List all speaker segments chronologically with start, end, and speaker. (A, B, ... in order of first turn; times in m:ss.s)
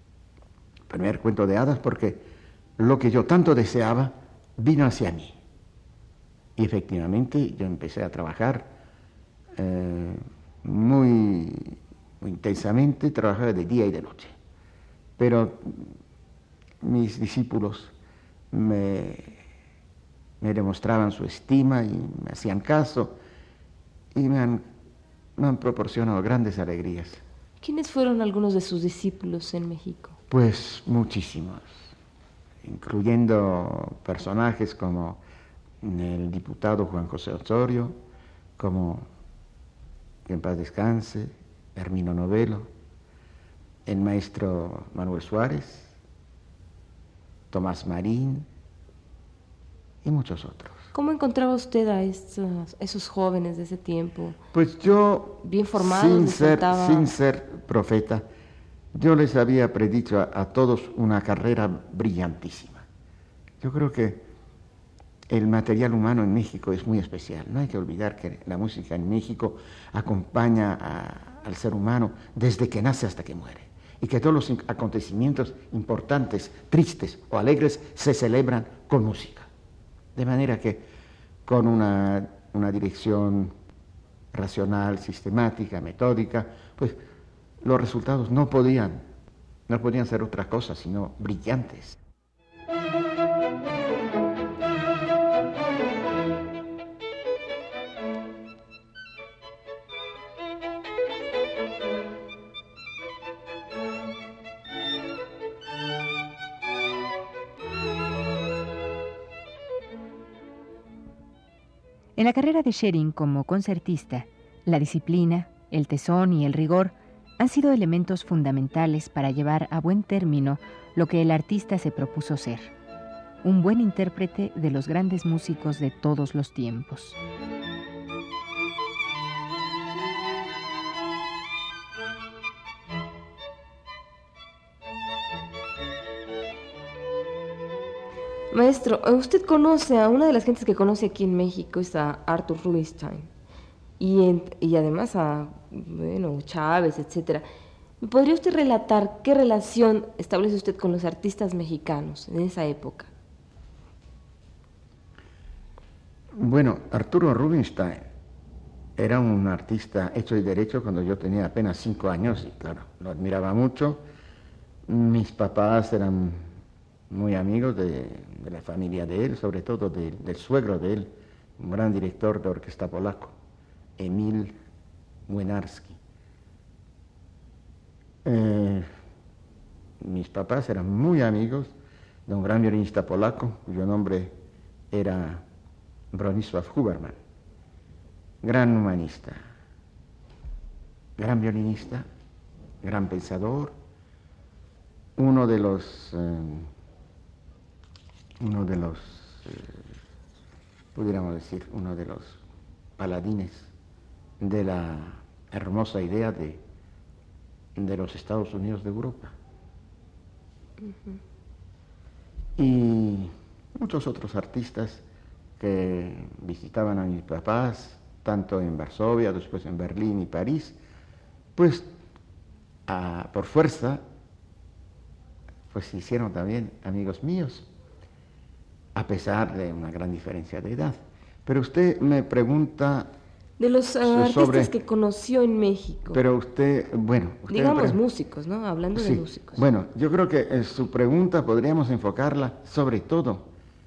0:00.9-0:02.2 A
0:02.8-0:05.4 A
0:06.6-0:08.7 A
0:09.6-0:14.3 A
0:15.2-0:16.0 A
0:16.8-0:17.9 A
0:18.5-0:19.4 A
0:20.4-0:23.2 A
0:24.1-0:24.6 A
0:25.4-0:27.2 A
0:27.6-0:30.2 B
0:30.3-0:31.8 A
0:32.6-0:35.2 A
0:35.8-0:38.0 A
0:38.6-0:39.1 A
0:40.2-0:42.7 A
0:43.8-0:45.9 A
0:47.5-0:48.5 A
0:50.0-0:50.8 A
0:50.9-0:54.4 B
0:54.5-0:58.2 A
0:55.4-0:57.1 B
0:58.9-1:02.8 A
1:03.6-1:04.2 A
1:05.3-1:19.5 A
1:20.1-1:20.8 A
1:21.4-1:23.5 A
1:24.3-1:27.0 A
1:27.6-1:29.0 A
1:29.7-1:32.0 A
1:52.2-2:02.7 C
2:03.4-2:07.2 C
2:18.5-2:23.3 B
2:24.0-2:27.4 B
2:28.0-2:33.1 B
2:36.3-2:38.0 A
2:39.0-2:44.0 A
2:44.9-2:46.5 A
2:47.1-2:53.3 A
2:54.0-2:54.6 A
2:55.3-2:56.0 A
2:58.2-2:58.9 A
3:00.0-3:01.7 A
3:02.2-3:04.3 A
3:04.9-3:05.4 A
3:06.1-3:07.2 A
3:08.4-3:09.4 A
3:11.2-3:12.0 A
3:12.8-3:13.7 A
3:15.2-3:16.7 A
3:18.4-3:19.8 A
3:20.9-3:22.4 A
3:23.0-3:23.7 A
3:24.4-3:26.6 A
3:27.7-3:29.3 A
3:30.8-3:31.2 B
3:32.6-3:35.0 A
3:35.6-3:40.8 A
3:41.6-3:41.9 A
3:42.9-3:44.0 A
3:45.7-3:47.7 A
3:48.9-3:53.1 A
3:53.6-3:56.2 B
3:54.0-3:54.7 A
3:56.1-3:58.0 A
3:57.5-3:59.6 B
3:58.9-4:03.5 A